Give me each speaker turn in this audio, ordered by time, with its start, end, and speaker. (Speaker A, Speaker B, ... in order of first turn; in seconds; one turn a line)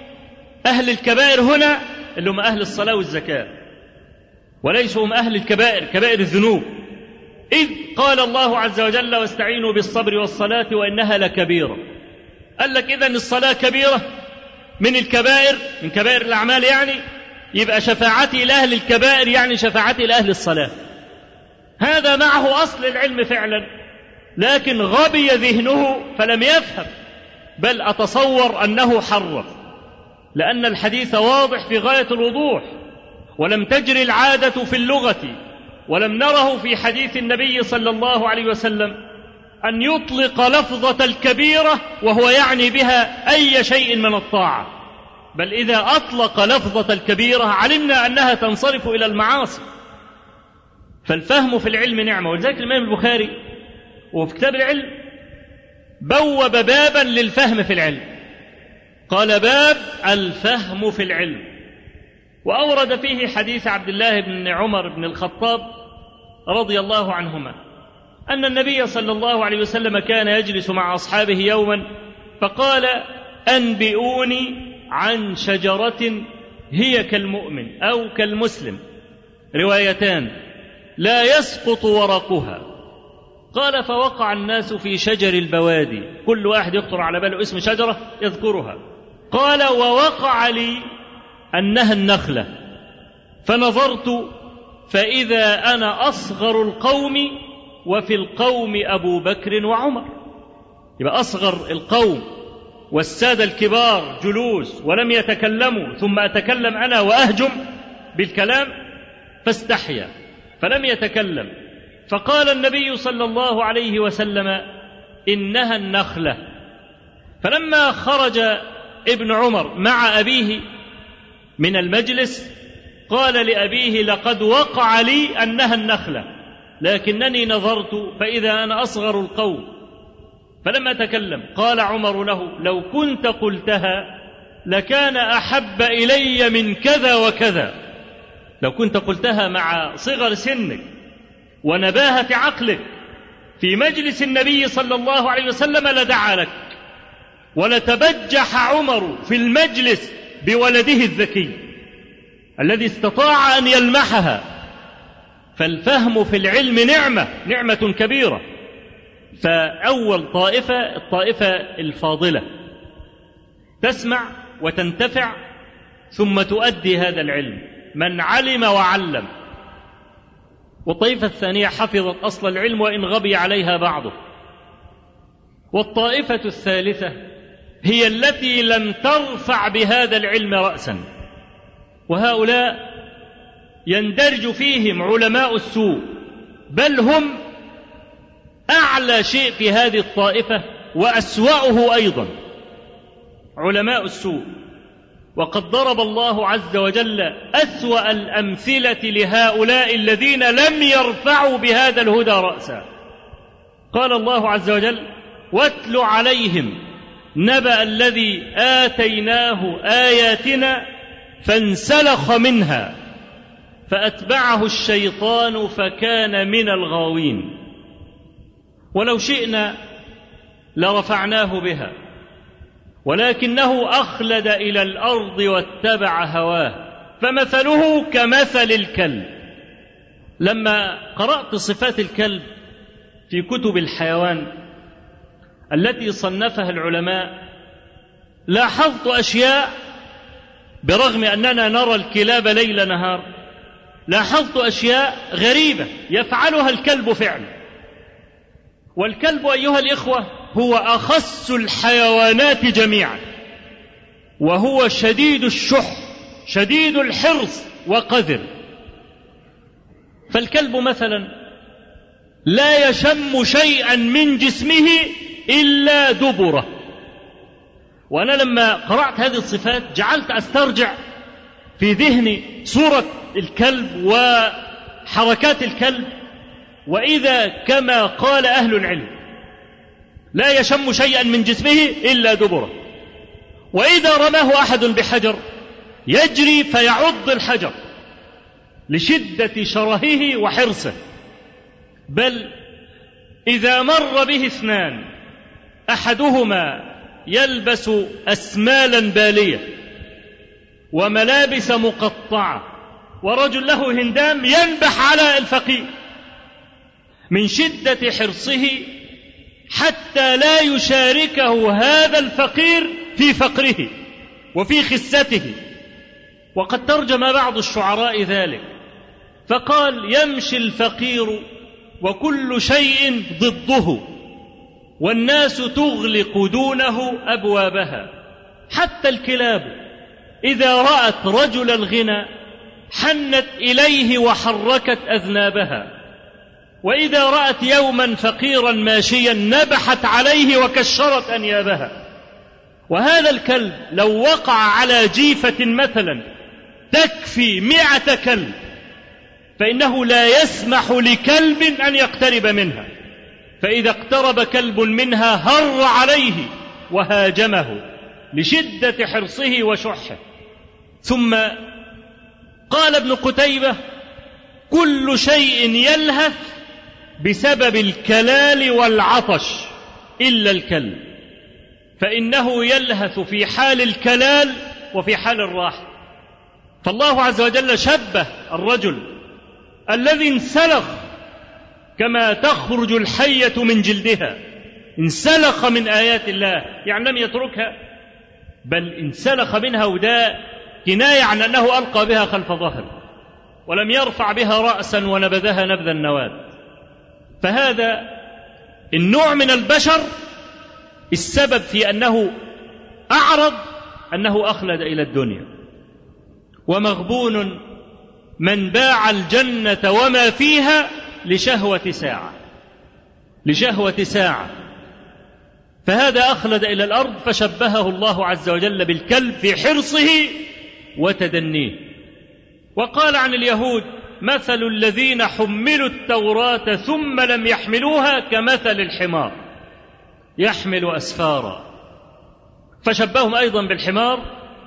Speaker A: 0.7-3.5
Speaker A: 4.6-6.8
Speaker A: 7.5-11.8
Speaker A: 12.6-14.1
Speaker A: 14.8-17.0
Speaker A: 17.5-20.7
Speaker A: 21.8-23.7
Speaker A: 24.4-26.9
Speaker A: 27.6-29.6
Speaker A: 30.3-32.7
Speaker A: 33.4-35.3
Speaker A: 35.9-39.0
Speaker A: 39.6-44.7
Speaker A: 45.4-49.6
Speaker A: 51.0-53.3
Speaker A: 54.1-55.0
Speaker A: 56.0-58.0
Speaker A: 59.1-61.5
Speaker A: 62.4-65.7
Speaker A: 66.5-67.5
Speaker A: 68.3-71.8
Speaker A: 72.4-78.8
Speaker A: 79.5-80.3
Speaker A: 81.0-82.6
Speaker A: 83.5-88.8
Speaker A: 89.3-90.8
Speaker A: 91.5-92.5
Speaker A: 93.4-94.3
Speaker A: 94.9-100.1
Speaker A: 101.0-102.3
Speaker A: 102.9-108.7
Speaker A: 109.4-111.5
Speaker A: 112.1-114.7
Speaker A: 115.3-116.4
Speaker A: 117.4-120.6
Speaker A: 121.6-122.5
Speaker A: 123.1-126.3
Speaker A: 126.8-129.7
Speaker A: 130.6-134.1
Speaker A: 134.7-137.7
Speaker A: 138.6-140.9
Speaker A: 141.6-142.8
Speaker A: 143.6-146.8
Speaker A: 147.6-151.6
Speaker A: 152.6-154.4
Speaker A: 155.6-158.4
Speaker A: 159.4-162.5
Speaker A: 163.8-165.4
Speaker A: 166.1-169.3
Speaker A: 170.8-174.1
Speaker A: 175.7-177.2
Speaker A: 177.8-181.0
Speaker A: 182.1-182.9
Speaker A: 183.9-186.2
Speaker A: 186.7-187.4
Speaker A: 188.7-192.3
Speaker A: 193.6-194.5
Speaker A: 195.3-202.8
Speaker A: 203.9-206.8
Speaker A: 207.4-210.9
Speaker A: 211.4-212.9
Speaker A: 213.9-217.6
Speaker A: 218.9-219.8
Speaker A: 220.8-221.9
Speaker A: 223.0-229.3
Speaker A: 230.4-232.5
Speaker A: 233.3-234.6
Speaker A: 235.7-237.4
Speaker A: 238.5-239.7
Speaker A: 240.8-243.2
Speaker A: 244.1-247.5
Speaker A: 249.0-253.2
Speaker A: 254.4-258.4
Speaker A: 260.3-261.3
Speaker A: 262.4-266.7
Speaker A: 268.1-270.9
Speaker A: 271.8-276.1
Speaker A: 276.9-279.1
Speaker A: 280.3-282.7
Speaker A: 283.7-285.4
Speaker A: 286.1-287.7
Speaker A: 288.9-290.9
Speaker A: 292.1-292.5
Speaker A: 293.5-295.0
Speaker A: 295.9-299.7
Speaker A: 300.9-302.6
Speaker A: 303.2-305.9
Speaker A: 307.3-308.9
Speaker A: 309.7-313.9
Speaker A: 314.5-315.6
Speaker A: 316.5-318.7
Speaker A: 319.5-321.4
Speaker A: 322.0-324.1
Speaker A: 325.0-328.1
Speaker A: 328.7-329.8
Speaker A: 330.4-332.3
Speaker A: 332.9-335.9
Speaker A: 336.8-341.9
Speaker A: 342.9-346.2
Speaker A: 346.9-348.5
Speaker A: 349.6-352.9
Speaker A: 353.6-357.8
Speaker A: 358.3-360.2
Speaker A: 361.0-361.6
Speaker A: 362.7-363.8
Speaker A: 364.7-366.4
Speaker A: 367.2-371.0
Speaker A: 372.0-375.9
Speaker A: 376.8-379.1
Speaker A: 379.9-381.0
Speaker A: 382.0-384.4
Speaker A: 385.0-387.7
Speaker A: 388.6-392.9
Speaker A: 393.7-396.5
Speaker A: 397.4-398.1
Speaker A: 398.9-400.1
Speaker A: 401.1-402.3
Speaker A: 403.1-403.6
Speaker A: 404.1-405.5
Speaker A: 406.7-407.6
Speaker A: 408.4-412.4
Speaker A: 413.4-414.5
Speaker A: 415.9-420.4
Speaker A: 421.0-421.8
Speaker A: 422.8-429.4
Speaker A: 430.4-431.6
Speaker A: 432.8-434.2